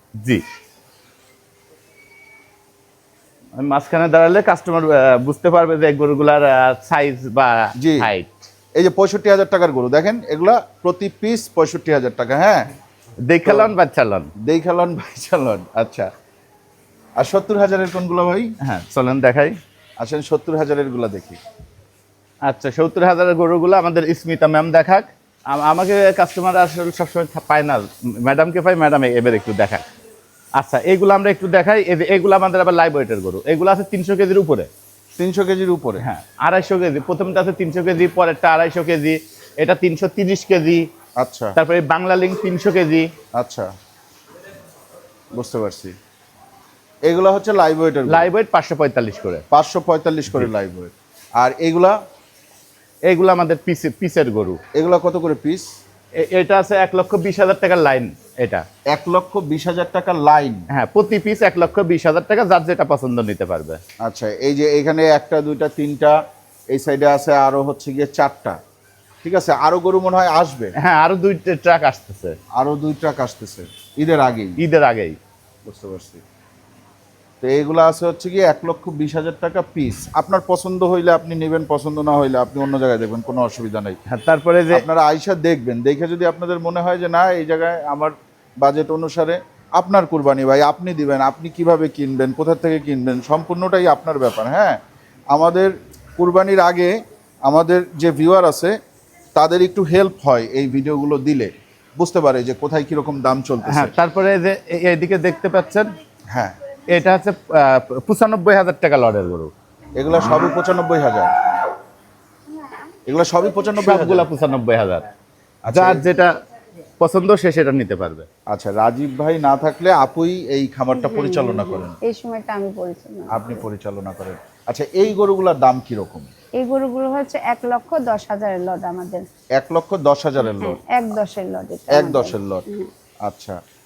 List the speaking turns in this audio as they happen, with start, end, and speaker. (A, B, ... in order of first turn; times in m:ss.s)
0:03.6-0:08.5 A
0:07.8-0:08.1 B
0:08.8-0:12.7 B
0:13.3-0:14.3 A
0:13.4-0:13.7 B
0:14.4-0:16.1 B
0:17.2-0:18.5 B
0:18.6-0:19.6 A
0:20.0-0:21.4 B
0:22.4-0:29.8 A
0:30.6-0:34.7 A
0:35.2-0:36.0 B
0:36.0-0:40.9 A
0:41.2-0:41.6 B
0:41.6-0:43.1 A
0:43.4-0:43.7 B
0:45.3-0:46.0 B
0:47.0-0:48.3 B
0:48.1-0:49.4 A
0:49.5-0:52.0 B
0:53.1-0:54.6 A
0:54.7-0:55.7 B
0:56.2-0:58.7 A
0:58.9-1:00.7 B
1:00.7-1:03.8 A
1:04.0-1:06.2 B
1:06.7-1:08.6 B
1:09.2-1:10.7 B
1:10.8-1:12.4 A
1:12.6-1:14.6 B
1:14.6-1:15.2 A
1:15.6-1:16.2 B
1:17.4-1:24.0 B
1:24.1-1:24.9 A
1:24.7-1:34.8 B
1:35.3-1:36.9 B
1:37.5-1:38.8 B
1:39.4-1:43.9 B
1:43.6-1:46.0 A
1:46.3-1:46.6 B
1:46.9-1:49.5 A
1:50.0-1:51.3 B
1:53.1-1:54.3 B
1:53.8-1:55.1 A
1:55.6-1:56.1 B
1:55.7-1:56.3 A
1:57.0-1:58.3 A
1:58.5-2:02.0 B
2:01.0-2:03.6 C
2:03.3-2:06.3 B
2:06.6-2:09.3 C
2:09.6-2:10.8 B
2:10.4-2:12.9 C
2:11.9-2:12.7 B
2:13.2-2:13.6 B